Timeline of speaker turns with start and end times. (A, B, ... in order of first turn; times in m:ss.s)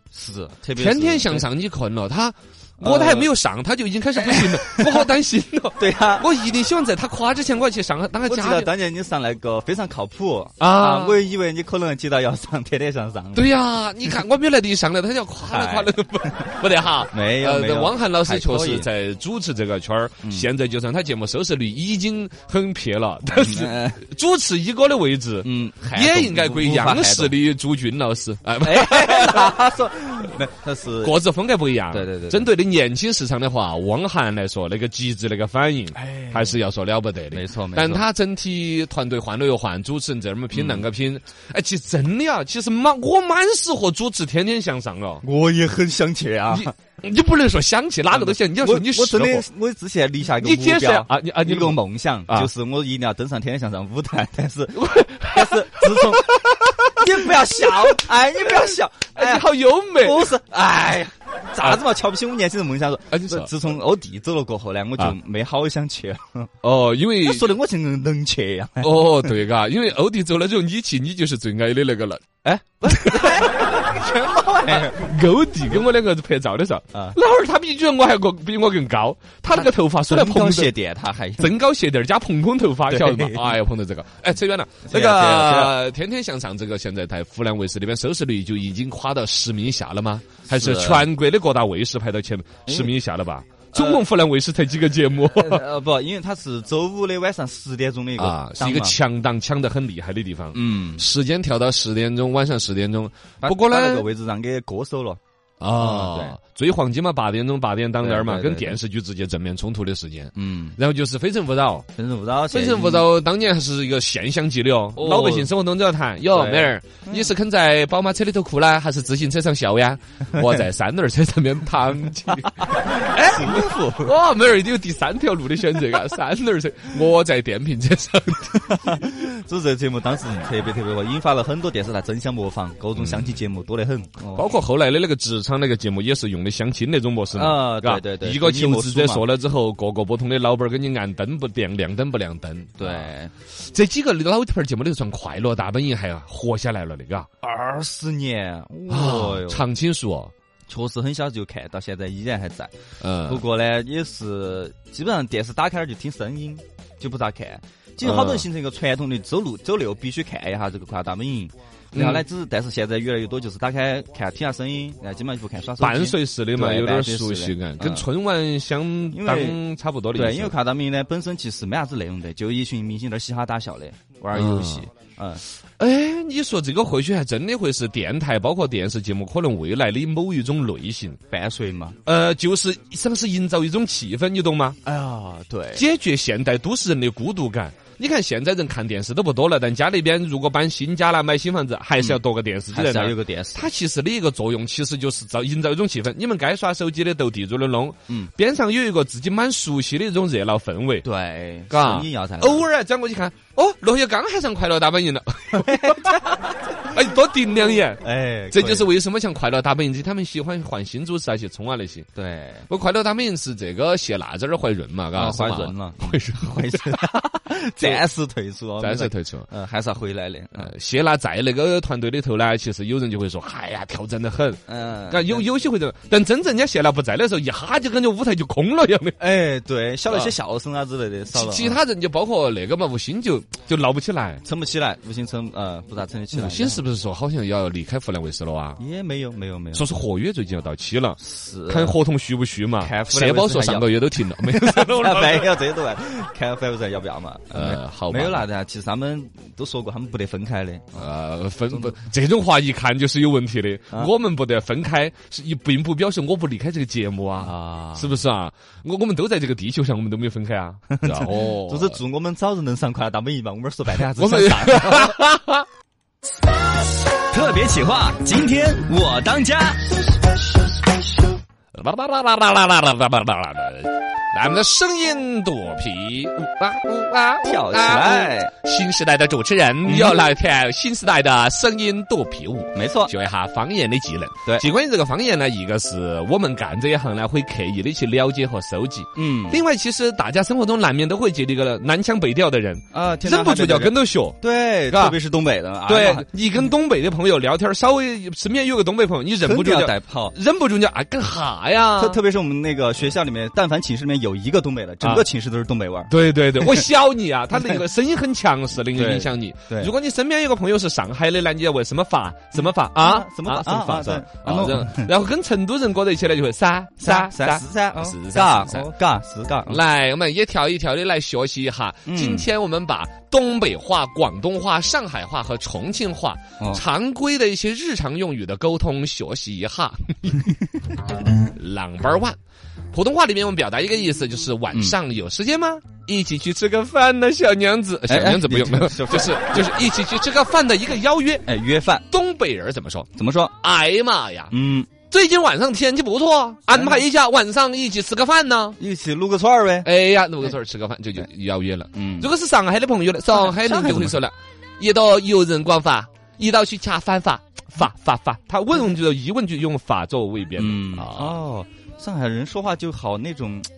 0:00.1-0:01.5 A
0:00.7-0:08.7 B
0:02.8-0:03.3 A
0:04.2-0:05.1 A
0:05.8-0:06.3 A
0:08.2-0:13.5 A
0:10.6-0:11.2 B
0:13.3-0:29.6 B
0:15.4-0:15.9 A
0:17.1-0:18.9 A
0:23.3-0:24.0 A
0:25.4-0:27.4 A
0:28.6-0:31.2 A
0:31.0-0:45.2 B
0:31.9-0:32.4 A
0:36.0-0:36.6 A
0:37.3-0:38.0 A
0:40.5-0:40.8 A
0:45.2-0:46.7 A
0:46.5-0:49.5 B
0:48.1-1:06.5 A
0:50.4-0:52.5 B
0:54.7-1:00.4 B
1:03.1-1:03.5 B
1:06.6-1:07.5 B
1:07.2-1:09.3 A
1:08.8-1:13.9 B
1:12.4-1:15.0 A
1:14.6-1:20.8 B
1:19.5-1:21.5 A
1:21.4-1:35.6 B
1:22.9-1:23.5 A
1:24.9-1:25.8 A
1:30.5-1:31.1 A
1:32.7-1:32.9 A
1:33.7-1:34.0 A
1:35.3-1:39.0 A
1:38.2-1:44.1 B
1:40.5-1:41.0 A
1:43.4-1:45.2 A
1:45.6-1:51.9 B
1:45.8-1:46.4 A
1:48.0-1:48.8 A
1:50.4-1:50.8 A
1:52.0-1:53.1 A
1:52.5-2:08.8 B
1:55.0-1:55.5 A
1:56.3-1:57.3 A
2:02.6-2:04.1 A
2:08.6-2:14.5 A
2:13.0-2:13.3 B
2:14.3-2:27.3 B
2:17.3-2:19.2 A
2:22.8-2:23.3 A
2:27.4-2:29.6 A
2:28.9-2:30.3 B
2:30.7-2:32.7 A
2:33.0-2:33.4 B
2:33.2-2:48.1 A
2:38.0-2:38.5 B
2:41.9-2:42.2 B
2:45.8-2:50.6 B
2:49.1-2:49.6 A
2:50.1-2:55.4 A
2:54.3-2:54.9 B
2:55.8-3:01.2 B
3:01.3-3:02.0 A
3:02.0-3:04.8 B
3:04.8-3:05.8 A
3:05.8-3:21.0 B
3:12.0-3:13.7 A
3:21.0-3:22.6 A
3:21.7-3:26.2 B
3:25.5-3:26.9 A
3:26.8-3:32.1 B
3:28.0-3:28.9 A
3:32.2-3:32.7 A
3:32.7-3:38.0 B
3:35.1-3:40.7 A
3:38.8-3:39.5 B
3:40.6-3:49.2 B
3:44.7-3:45.4 A
3:49.2-3:51.8 A
3:50.1-3:50.3 B
3:51.3-3:54.4 B
3:54.4-3:56.8 A
3:56.3-3:58.8 B
3:58.8-3:59.9 A
3:59.7-4:05.6 B
4:01.2-4:02.0 A
4:02.8-4:11.1 A
4:07.5-4:08.5 B
4:10.9-4:22.0 B
4:17.4-4:18.2 A
4:20.9-4:25.2 A
4:24.1-4:25.7 B
4:27.3-4:29.8 C
4:28.4-4:29.5 A
4:31.7-4:54.4 B
4:37.4-4:38.5 A
4:39.8-4:40.2 A
4:42.7-4:43.1 A
4:49.1-4:49.6 A
4:52.9-4:56.3 A
4:54.9-4:55.2 B
4:55.9-5:02.2 B
4:59.4-5:00.4 A
5:02.0-5:06.9 A
5:06.1-5:18.9 B
5:08.9-5:09.9 A
5:13.0-5:15.1 A
5:17.0-5:19.8 A
5:19.7-5:30.5 B
5:22.0-5:22.5 A
5:26.6-5:26.8 A
5:31.3-5:32.4 B
5:32.9-5:41.5 B
5:34.7-5:35.0 A
5:38.1-5:39.7 A
5:41.4-5:42.0 A
5:42.1-5:48.8 B
5:43.1-5:43.5 A
5:44.5-5:44.9 A
5:46.7-5:47.0 A
5:48.8-5:49.9 A
5:49.8-6:01.4 B
5:51.9-5:52.3 A
5:53.3-5:54.2 A
6:00.6-6:03.7 A